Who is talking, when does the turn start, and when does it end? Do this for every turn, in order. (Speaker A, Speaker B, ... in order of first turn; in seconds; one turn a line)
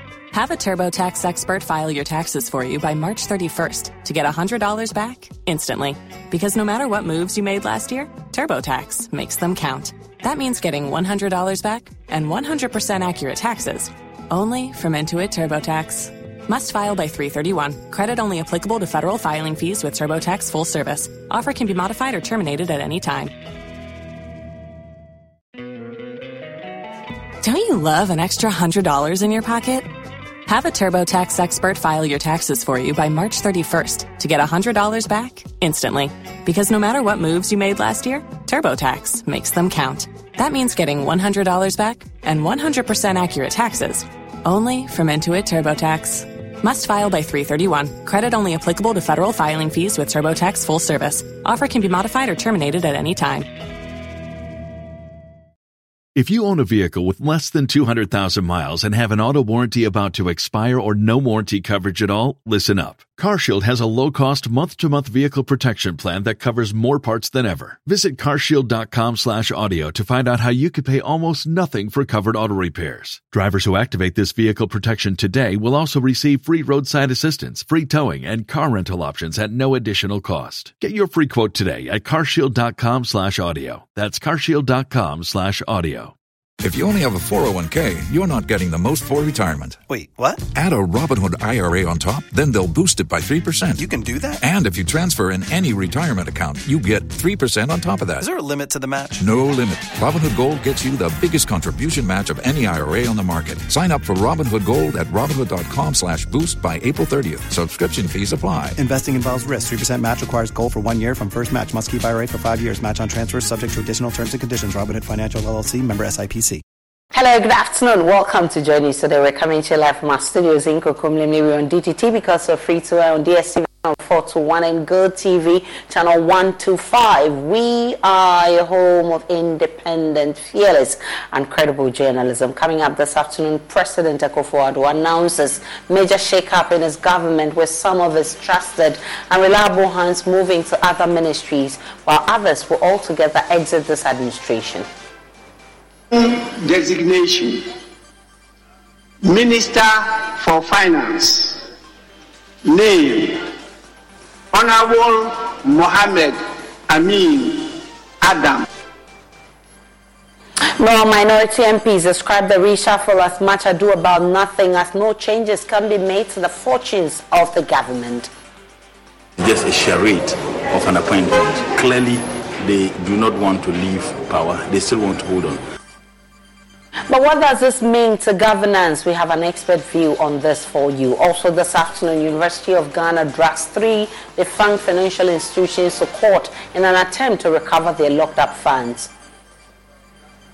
Speaker A: 0.3-23.3
Speaker A: 27.4-29.9
Speaker A: 30.5-53.5
Speaker B: 56.2-86.1
Speaker C: 86.6-89.8
Speaker D: 89.9-90.4
Speaker C: 90.5-93.9
Speaker D: 93.8-94.4
Speaker C: 94.4-98.3
Speaker D: 98.2-99.2
Speaker C: 99.2-108.8
Speaker D: 108.8-116.6
Speaker E: 117.1-144.9
Speaker F: 146.1-147.7
Speaker F: 149.2-151.7
Speaker F: 152.6-153.5
Speaker F: 154.5-158.7
Speaker E: 160.8-168.3
Speaker G: 169.4-175.6
Speaker E: 177.1-189.1